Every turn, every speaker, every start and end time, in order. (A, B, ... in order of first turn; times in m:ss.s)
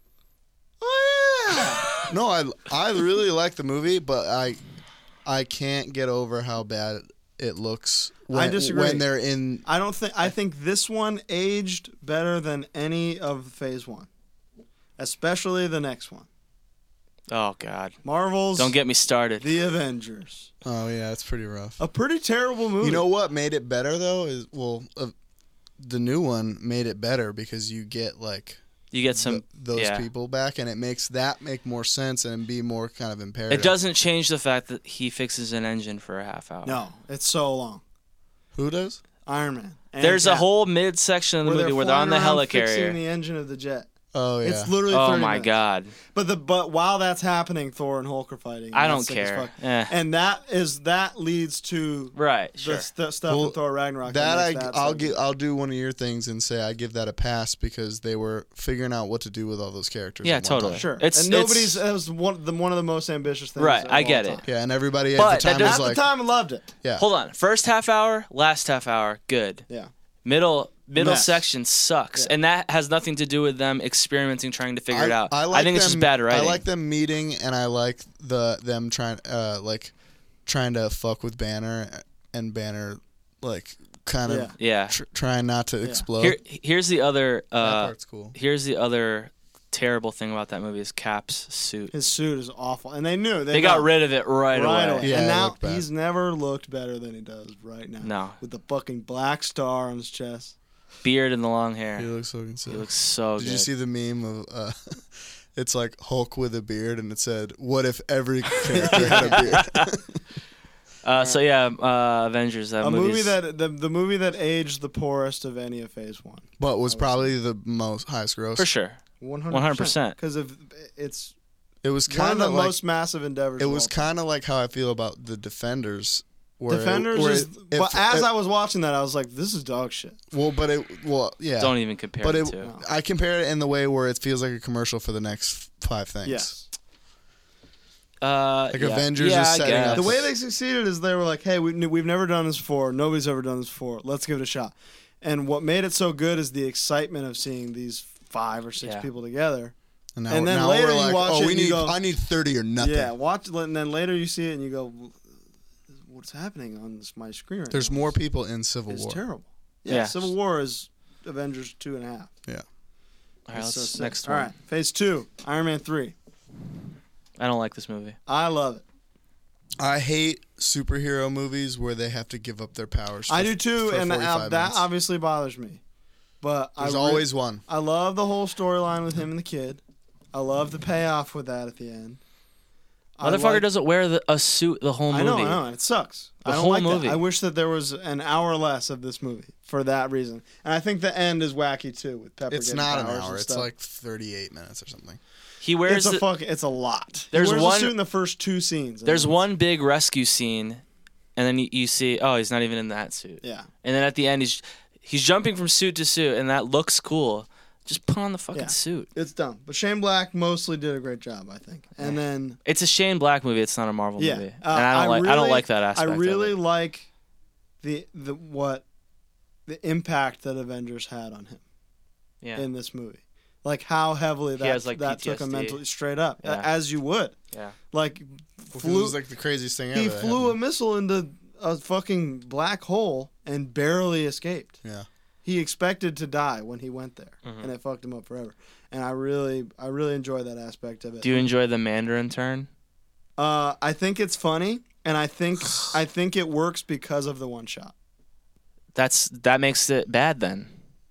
0:00.8-0:01.9 A
0:02.1-0:04.6 B
0:05.2-0:09.6 B
0:08.3-0:09.1 A
0:09.6-0:14.1 A
0:15.0-0:16.3 A
0:17.3-0:18.0 C
0:18.0-0:18.8 A
0:18.6-0:19.4 C
0:19.4-0:20.5 A
0:20.6-0:21.8 B
0:21.8-0:23.0 A
0:22.8-0:25.1 B
0:25.8-0:28.6 B
0:28.9-0:30.1 C
0:29.1-0:33.7 B
0:33.5-0:36.8 C
0:36.6-0:37.8 A
0:38.6-0:39.0 B
0:39.3-0:40.5 A
0:40.0-0:43.0 C
0:41.4-0:43.9 A
0:44.1-0:44.7 B
0:44.4-0:45.5 A
0:44.9-0:45.9 C
0:46.1-0:55.2 A
0:48.7-0:50.0 C
0:52.2-0:52.9 C
0:53.3-1:00.8 B
1:00.2-1:01.8 C
1:00.7-1:04.5 A
1:03.6-1:04.4 C
1:04.5-1:06.0 B
1:05.2-1:05.9 C
1:05.6-1:06.7 A
1:07.0-1:09.6 C
1:10.2-1:16.6 C
1:11.0-1:11.5 A
1:14.9-1:19.9 B
1:20.5-1:26.4 B
1:24.3-1:24.5 A
1:24.6-1:25.0 C
1:26.2-1:31.9 C
1:27.6-1:28.4 B
1:31.9-1:33.9 A
1:33.5-1:35.1 C
1:34.5-1:40.6 A
1:35.0-1:35.8 B
1:38.0-1:38.4 C
1:41.0-1:42.1 C
1:42.0-1:50.2 B
1:42.7-1:43.7 C
1:48.8-1:49.5 A
1:48.9-1:49.9 C
1:51.0-1:53.4 C
1:52.8-1:57.3 A
1:56.6-1:58.7 B
1:58.6-2:00.2 C
1:59.2-2:01.3 A
2:01.8-2:02.8 B
2:02.1-2:04.1 A
2:03.6-2:08.3 B
2:06.7-2:10.2 A
2:10.3-2:16.6 B
2:11.6-2:12.7 C
2:16.2-2:16.7 A
2:18.2-2:20.2 C
2:18.7-2:20.3 B
2:19.9-2:29.7 A
2:30.2-2:33.1 B
2:30.3-2:32.0 A
2:32.8-2:35.2 A
2:36.0-2:38.1 A
2:37.7-2:39.2 B
2:38.9-2:42.3 A
2:39.9-2:40.3 C
2:43.5-2:44.5 C
2:43.5-2:46.1 A
2:47.4-2:48.2 C
2:48.3-2:48.8 A
2:49.8-2:54.9 B
2:53.3-2:55.8 A
2:56.4-2:59.8 A
2:56.8-2:57.6 B
3:00.3-3:02.2 A
3:03.2-3:03.6 A
3:03.2-3:05.6 C
3:05.1-3:13.7 A
3:06.4-3:07.2 C
3:12.5-3:15.2 B
3:15.6-3:16.2 C
3:15.9-3:19.4 A
3:17.3-3:17.9 C
3:19.1-3:20.8 C
3:21.4-3:29.1 C
3:23.4-3:23.7 A
3:28.5-3:32.6 A
3:32.0-3:36.6 C
3:34.2-3:37.1 A
3:37.8-3:38.8 A
3:39.7-3:41.6 A
3:42.6-3:47.4 A
3:44.6-3:45.8 C
3:46.4-3:46.7 C
3:47.9-3:49.2 A
3:48.7-3:50.6 B
3:49.9-3:54.8 A
3:55.4-4:01.4 A
3:57.4-3:57.7 C
4:01.2-4:02.7 C
4:03.4-4:07.9 A
4:09.0-4:10.7 C